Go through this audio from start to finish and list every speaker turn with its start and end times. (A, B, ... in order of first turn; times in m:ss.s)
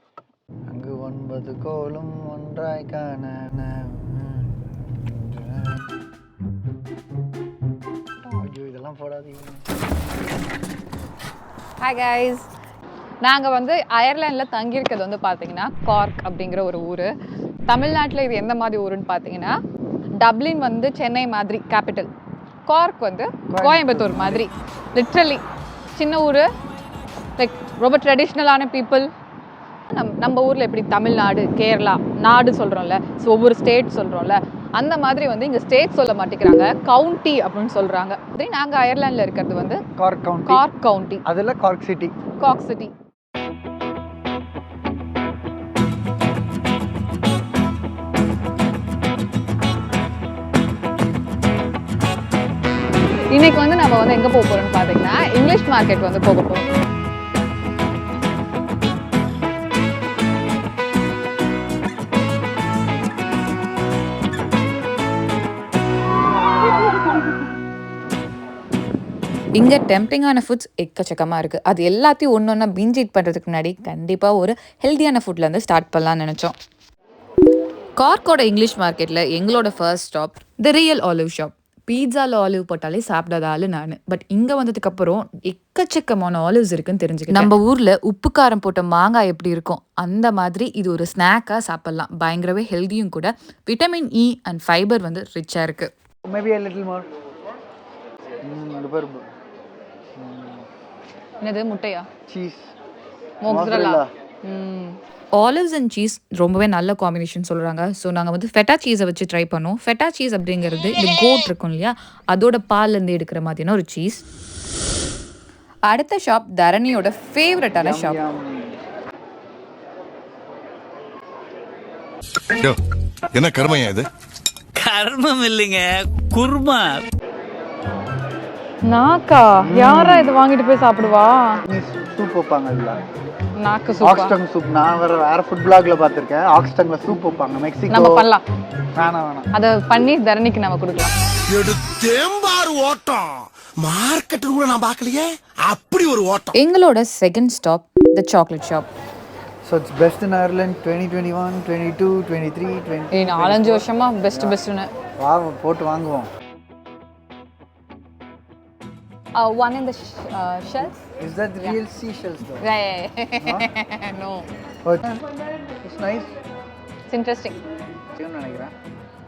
0:00.7-0:05.8 A
0:08.3-0:09.6 A
0:11.8-0:12.5 B
0:13.2-0:17.1 B
0:17.7-0:19.5 B
0:20.2-0:22.1 B
0:22.7-0:25.4 B
0:23.5-0:24.4 A
0:25.9-0:26.4 B
0:27.4-0:29.1 B
0:29.9-0:39.8 B
0:40.0-0:40.6 A
0:40.5-0:41.2 B
0:41.2-0:42.1 A
0:42.4-0:42.9 B
0:53.3-0:56.7 B
1:09.6-1:16.5 C
1:18.0-1:35.9 C
1:36.2-1:37.1 A
1:38.4-1:39.2 A
1:40.2-1:40.6 A
1:41.4-1:42.1 B
1:42.3-1:42.7 A
1:43.4-1:45.0 B
1:43.4-1:44.1 A
1:45.3-1:54.2 C
1:55.9-1:58.2 C
1:57.7-1:58.7 A
2:03.3-2:04.1 D
2:04.8-2:07.0 E
2:08.8-2:11.6 B
2:09.6-2:10.4 A
2:11.6-2:13.0 A
2:13.6-2:14.3 B
2:14.0-2:18.2 A
2:17.9-2:18.4 B
2:19.0-2:19.5 A
2:19.5-2:21.1 B
2:21.5-2:26.5 D
2:26.6-2:28.8 C
2:29.6-2:34.6 A
2:33.1-2:34.9 B
2:35.2-2:36.3 A
2:39.3-2:41.0 B
2:41.2-2:42.7 A
2:42.6-2:44.5 B
2:43.4-2:43.7 A
2:44.8-2:45.2 A
2:45.8-2:46.3 A
2:47.1-2:47.6 B
2:48.1-2:48.7 A